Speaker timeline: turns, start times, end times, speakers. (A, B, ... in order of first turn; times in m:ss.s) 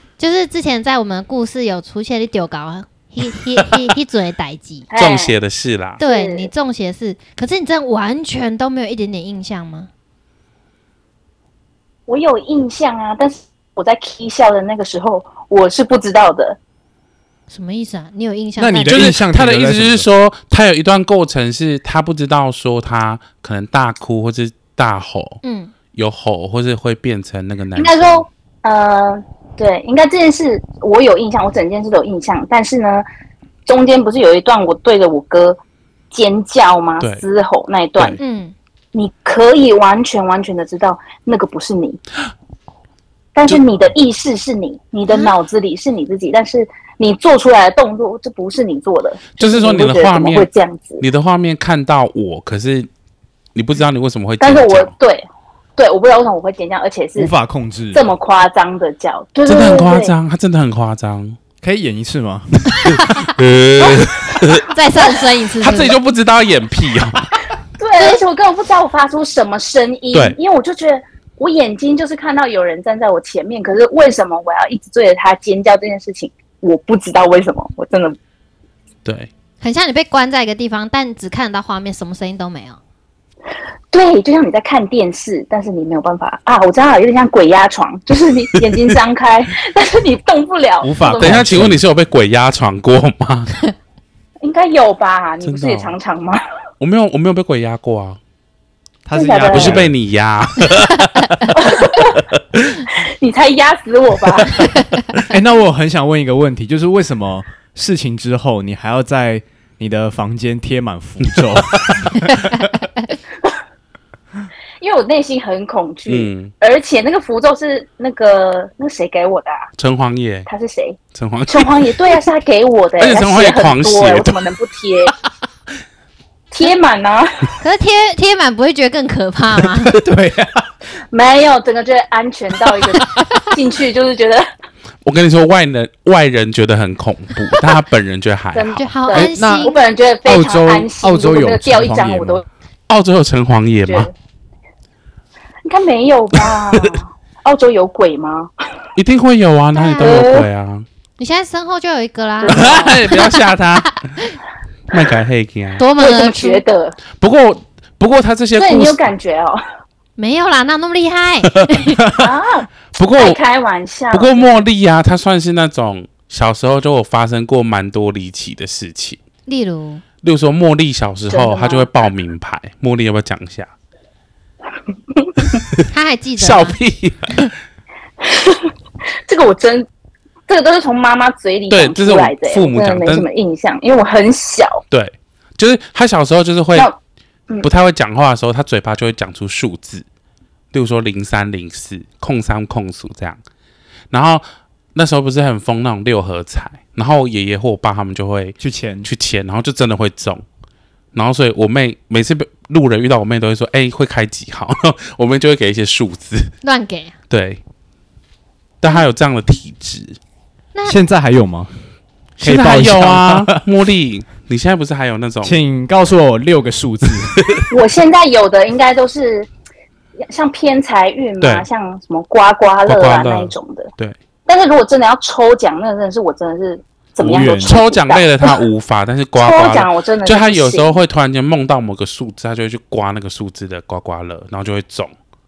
0:00.2-0:04.9 A
0:04.9-0:05.3 B
0:05.0-0:06.0 C
0:06.0-0:06.5 B
0:06.0-0:09.9 A
0:12.1-0:16.6 B
0:17.5-0:19.1 A
0:18.6-0:20.0 D
0:18.9-0:25.4 C
0:25.4-0:25.7 A
0:25.9-0:28.2 C
0:27.7-0:33.0 B
0:33.6-0:35.6 B
0:36.1-0:38.2 B
0:38.2-0:38.5 A
0:38.9-0:42.0 B
0:43.3-0:51.0 B
0:45.1-0:45.3 A
0:49.4-0:50.5 C
0:51.0-0:52.9 C
0:53.5-0:54.9 C
0:54.4-0:55.2 B
0:55.8-0:57.3 B
0:57.2-0:58.0 D
0:57.9-1:00.1 B
0:59.4-1:01.4 C
1:01.6-1:02.7 D
1:02.7-1:03.3 A
1:03.3-1:04.7 C
1:04.7-1:06.0 A
1:05.6-1:07.2 C
1:07.8-1:18.2 B
1:19.0-1:19.3 C
1:19.6-1:22.8 A
1:23.9-1:31.7 B
1:30.8-1:31.8 D
1:31.2-1:33.5 C
1:34.4-1:36.4 B
1:35.4-1:35.9 C
1:36.8-1:38.2 C
1:39.0-1:39.9 D
1:39.1-1:39.8 B
1:39.5-1:41.6 C
1:41.5-1:42.2 B
1:42.8-1:44.7 B
1:44.6-1:45.0 A
1:45.3-1:52.7 D
1:52.2-1:53.1 A
1:54.8-1:59.7 B
1:56.1-1:56.5 C
1:59.8-2:00.5 C
2:00.5-2:05.1 B
2:01.1-2:02.2 C
2:03.0-2:04.4 C
2:06.5-2:07.5 B
2:07.6-2:09.9 A
2:09.8-2:10.7 D
2:11.1-2:14.4 B
2:15.0-2:18.9 C
2:18.5-2:22.4 B
2:18.8-2:19.8 A
2:19.1-2:19.7 D
2:20.2-2:22.4 D
2:22.9-2:24.1 C
2:23.8-2:24.1 B
2:25.6-2:28.5 B
2:29.0-2:30.8 C
2:29.7-2:30.2 A
2:30.0-2:30.5 B
2:31.2-2:33.2 A
2:32.4-2:33.2 B
2:32.5-2:34.0 C
2:34.9-2:35.8 C
2:35.8-2:36.6 A
2:36.0-2:37.0 B
2:37.2-2:39.1 C
2:38.6-2:39.6 B
2:40.2-2:42.1 A
2:41.6-2:41.8 C
2:42.0-2:44.6 B
2:42.9-2:43.4 C
2:44.1-2:49.2 C
2:49.5-2:50.0 A
2:50.2-2:53.7 C
2:51.3-2:51.9 B
2:55.9-2:56.8 A
2:56.4-2:57.4 C
2:58.2-2:58.7 B
2:59.3-2:59.9 B
3:00.5-3:04.8 B
3:01.7-3:03.3 C
3:04.9-3:06.9 C
3:07.6-3:10.0 C
3:10.7-3:13.4 C
3:14.1-3:14.4 C
3:14.9-3:20.4 C
3:18.6-3:19.1 D
3:21.1-3:26.5 C
3:26.6-3:27.1 A
3:27.3-3:27.6 C
3:28.8-3:30.2 C
3:30.7-3:31.0 A
3:30.9-3:31.7 D
3:32.4-3:33.6 D
3:32.4-3:35.6 C
3:35.4-3:37.6 D
3:37.4-3:37.6 C
3:37.7-3:39.5 B
3:40.3-3:43.9 B
3:41.4-3:41.6 C
3:42.9-3:44.2 C
3:44.5-3:48.6 B
3:47.2-3:47.8 D
3:47.3-3:55.1 C
3:49.4-3:50.9 B